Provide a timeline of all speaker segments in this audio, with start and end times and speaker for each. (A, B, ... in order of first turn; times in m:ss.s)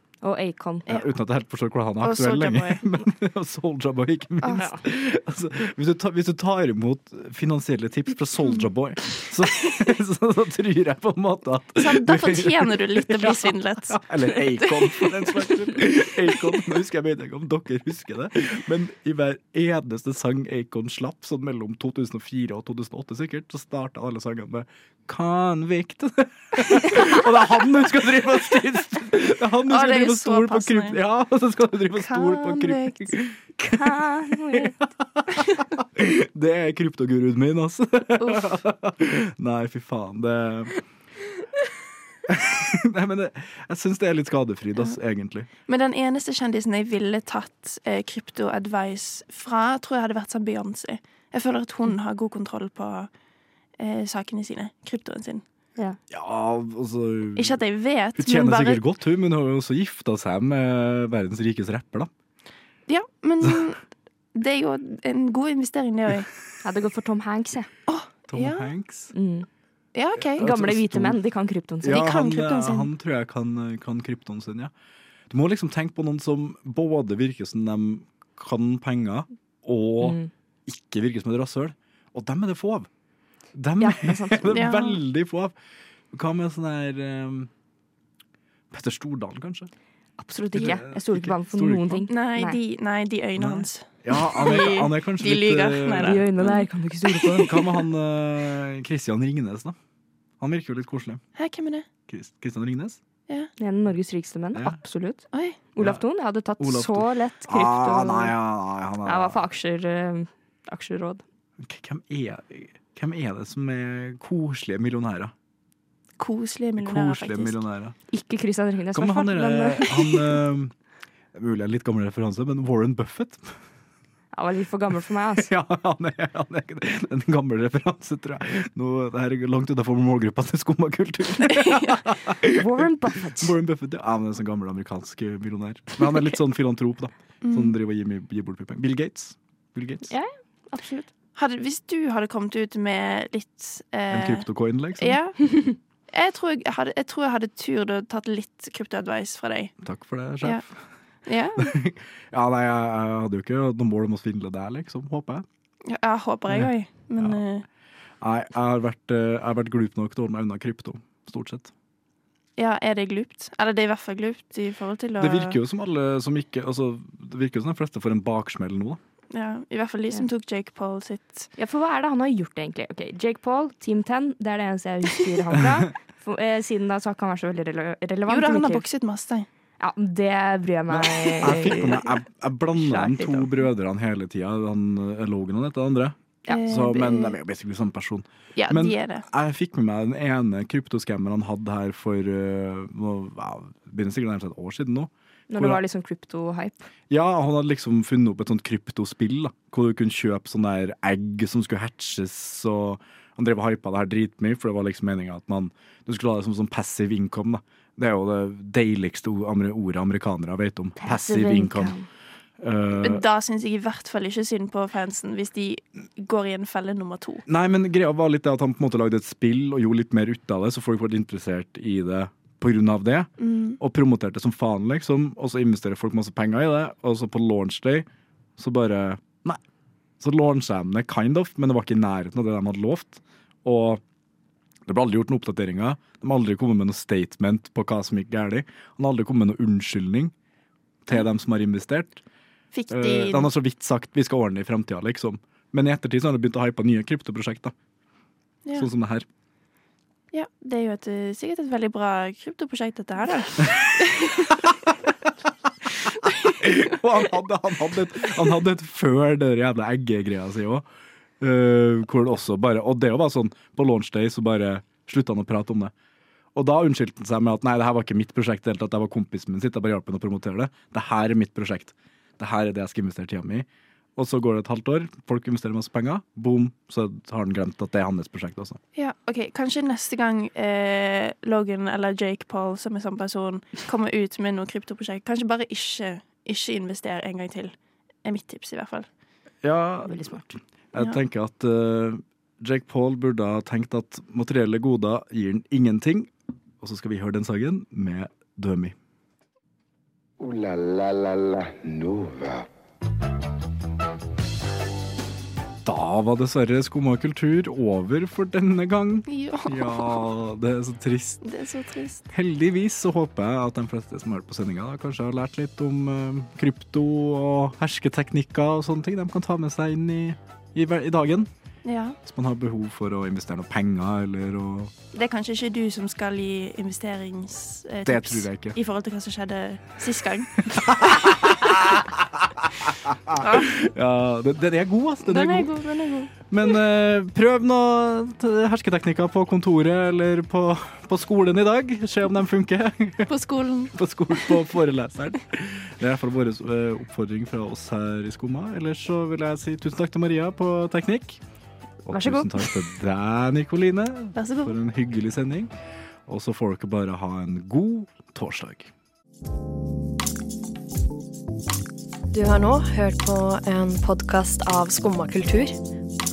0:00.2-0:00.8 A
0:00.9-0:40.8 B
0:02.0-0:02.9 C
0:04.4-0:04.7 C
0:11.8-0:15.5 C
0:29.7-0:31.0 C
0:32.0-0:33.2 C
0:33.6-0:34.8 A
0:42.3-0:45.5 B
0:45.7-0:53.1 C
0:53.8-0:55.4 C
0:56.1-0:57.6 B
0:57.4-0:58.8 C
0:58.2-1:02.1 B
1:02.9-1:03.8 C
1:04.3-1:06.3 C
1:06.6-1:07.7 A
1:07.9-1:08.7 C
1:08.3-1:09.1 B
1:09.1-1:09.5 A
1:10.0-1:10.5 C
1:10.3-1:11.2 B
1:10.4-1:12.0 A
1:11.8-1:14.7 B
1:11.8-1:12.9 C
1:15.3-1:22.9 B
1:20.0-1:20.3 A
1:23.5-1:25.6 B
1:23.8-1:24.8 A
1:24.5-1:25.0 C
1:26.1-1:27.5 B
1:28.7-1:29.7 B
1:30.2-1:32.6 A
1:30.5-1:32.1 B
1:32.1-1:36.6 C
1:33.4-1:36.6 B
1:36.0-1:37.6 A
1:37.2-1:39.8 B
1:40.4-1:41.2 B
1:41.4-1:41.9 C
1:42.1-1:43.0 B
1:43.6-1:45.2 A
1:44.5-1:44.8 B
1:45.3-1:45.6 C
1:45.8-1:48.4 A
1:45.8-1:46.0 B
1:46.6-1:49.4 B
1:49.0-1:51.2 A
1:51.6-1:55.3 B
1:56.2-1:57.6 C
1:56.8-1:58.0 B
1:58.1-2:00.4 A
1:58.9-2:00.7 B
2:01.3-2:03.5 B
2:04.3-2:05.5 A
2:05.4-2:20.1 B
2:12.5-2:13.6 A
2:17.4-2:17.8 C
2:20.1-2:21.1 A
2:21.4-2:24.5 C
2:24.1-2:25.2 B
2:25.0-2:29.7 C
2:29.8-2:30.8 B
2:31.3-2:31.8 C
2:31.6-2:35.5 B
2:35.9-2:37.6 C
2:36.5-2:37.4 B
2:38.2-2:41.7 B
2:42.6-2:45.6 C
2:45.2-2:49.0 B
2:49.3-2:51.5 C
2:51.6-2:58.8 A
2:55.6-2:55.9 B
2:58.3-2:59.5 C
2:59.8-3:02.1 A
3:00.9-3:15.8 B
3:02.8-3:03.6 A
3:06.5-3:07.4 C
3:08.6-3:09.2 C
3:15.5-3:16.9 A
3:17.1-3:32.0 B
3:31.0-3:32.1 A
3:32.6-3:33.2 B
3:32.9-3:37.4 C
3:37.5-3:49.6 B
3:43.4-3:43.8 C
3:50.2-3:54.0 B
3:54.9-4:00.3 B
4:01.0-4:02.2 B
4:02.7-4:03.5 C
4:02.9-4:07.7 B
4:08.8-4:09.3 B
4:10.3-4:14.6 C
4:16.3-4:20.8 B
4:21.4-4:25.9 B
4:26.6-4:38.8 B
4:39.0-4:47.7 C
4:48.2-4:49.1 C
4:49.6-4:50.4 B
4:50.1-4:50.6 A
4:50.9-4:59.0 B
5:00.4-5:02.7 D
5:05.8-5:11.4 B
5:09.3-5:10.2 C
5:11.4-5:12.2 C
5:12.3-5:21.5 B
5:21.8-5:22.2 C
5:22.2-5:24.9 B
5:25.1-5:31.7 C
5:28.0-5:28.8 B
5:30.7-5:32.1 B
5:33.1-5:35.7 B
5:33.4-5:33.7 C
5:35.2-5:36.5 C
5:36.5-5:43.3 B
5:43.3-5:43.9 C
5:43.9-5:51.4 B
5:52.0-5:55.7 B
5:52.1-5:52.7 A
5:54.4-5:54.8 C
5:56.3-5:58.9 B
6:02.3-6:05.8 E